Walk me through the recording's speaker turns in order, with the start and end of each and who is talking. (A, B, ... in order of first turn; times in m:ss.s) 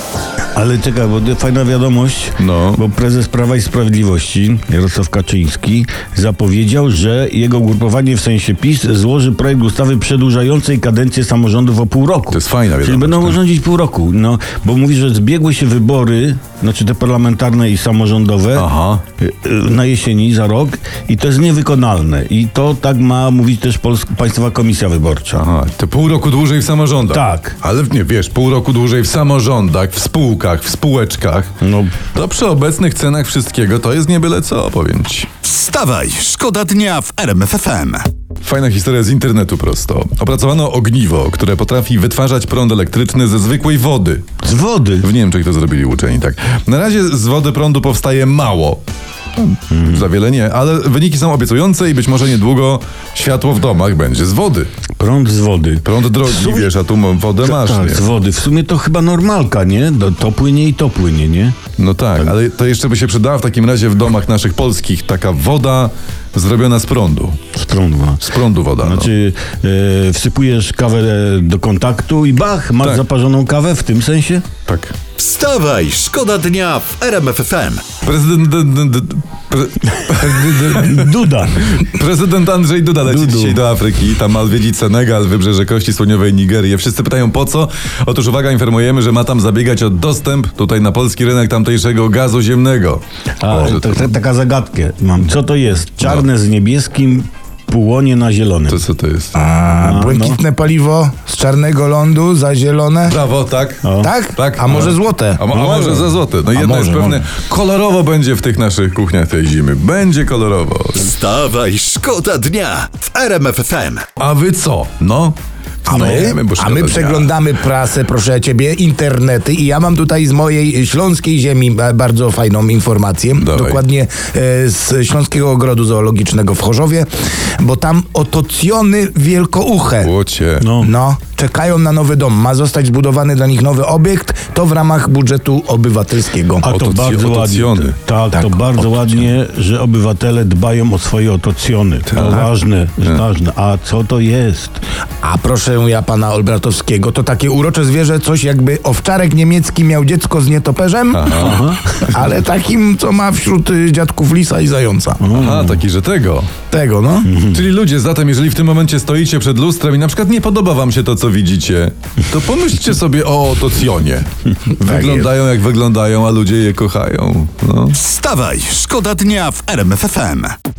0:00.6-0:25.4 A
0:02.4-0:02.8 B
0:12.3-0:13.4 B
0:18.6-0:19.0 B
0:25.4-0:31.5 B
0:27.1-0:27.6 A
0:31.6-0:32.0 A
0:32.1-0:35.3 B
0:35.4-0:38.1 C
0:38.4-0:44.2 B
0:44.4-0:45.1 A
0:45.0-0:48.8 B
0:49.4-0:54.7 B
0:49.7-0:50.1 A
0:55.0-0:56.7 A
0:55.8-0:58.0 B
0:57.4-1:01.6 A
1:01.8-1:07.4 B
1:07.5-1:08.2 A
1:08.2-1:09.1 B
1:08.8-1:14.5 A
1:14.7-1:15.0 B
1:15.2-1:17.9 C
1:18.0-1:34.1 B
1:20.1-1:21.9 A
1:23.0-1:23.6 A
1:33.4-1:38.8 A
1:38.7-1:39.4 B
1:39.3-1:43.2 D
1:39.7-1:40.4 A
1:43.1-1:51.1 B
1:43.8-1:44.1 A
1:44.0-1:45.4 D
1:45.5-1:46.2 A
1:46.5-1:47.3 D
1:51.0-1:54.1 C
1:54.2-1:57.3 B
1:55.9-2:07.1 D
1:55.9-1:56.3 A
2:03.4-2:03.8 B
2:07.6-2:10.1 D
2:10.0-2:10.7 B
2:10.6-2:10.9 A
2:10.8-2:16.7 D
2:16.6-2:24.8 A
2:16.6-2:18.0 B
2:18.3-2:18.6 D
2:22.1-2:23.2 B
2:25.2-2:31.5 D
2:31.1-2:31.6 B
2:31.3-2:31.8 A
2:32.0-2:35.3 D
2:35.2-2:35.8 A
2:35.3-2:36.6 B
2:36.7-2:37.3 D
2:37.3-2:37.6 A
2:37.5-2:48.0 B
2:44.8-2:45.3 D
2:48.0-2:50.6 C